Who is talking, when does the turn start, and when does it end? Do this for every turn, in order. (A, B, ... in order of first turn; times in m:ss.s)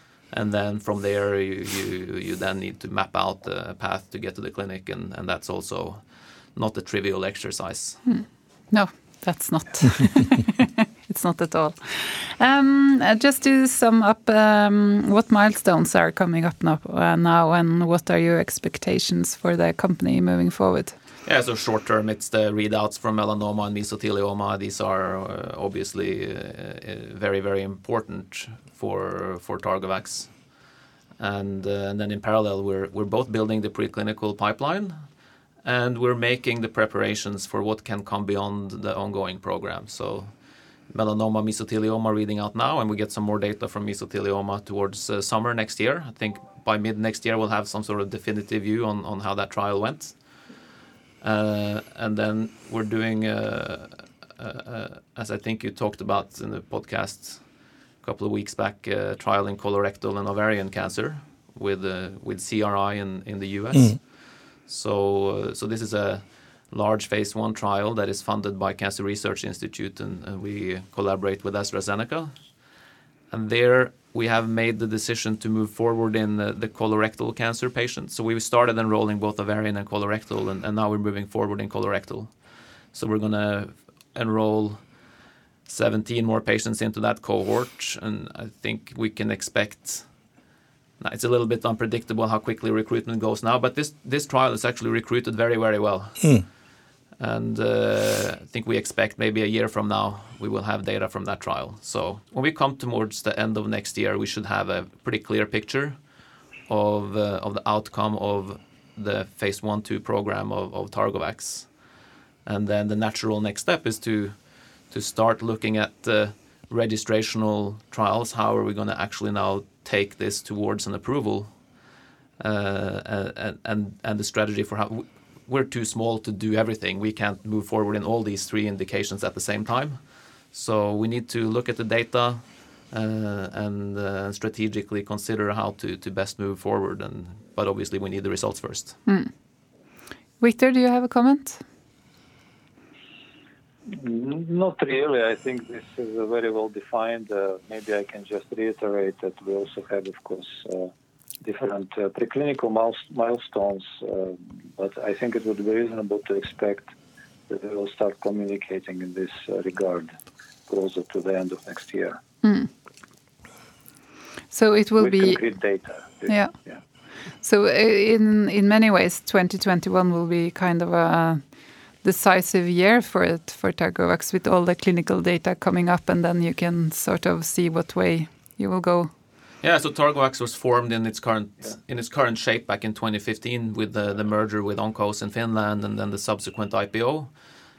0:00.3-0:08.0 A
0:08.0-0:21.0 B
0:21.2-0:30.6 A
0:31.2-0:35.1 A
0:35.6-0:50.2 A
0:51.2-1:12.4 A
1:13.3-1:22.4 A
1:22.9-1:24.9 A
1:25.6-1:30.1 A
1:31.0-1:36.5 A
1:37.2-1:46.0 A
1:46.7-1:51.8 A
1:52.4-2:01.5 A
2:02.4-2:19.0 A
2:19.0-2:19.3 B
2:20.4-2:21.6 B
2:23.9-2:30.9 C
2:31.4-2:36.9 C
2:37.5-2:40.1 C
2:40.7-2:42.2 C
2:42.4-2:42.7 B
2:44.5-2:45.5 B
2:45.0-2:46.8 C
2:46.3-2:46.5 B
2:47.4-2:59.1 B
2:59.6-3:07.3 A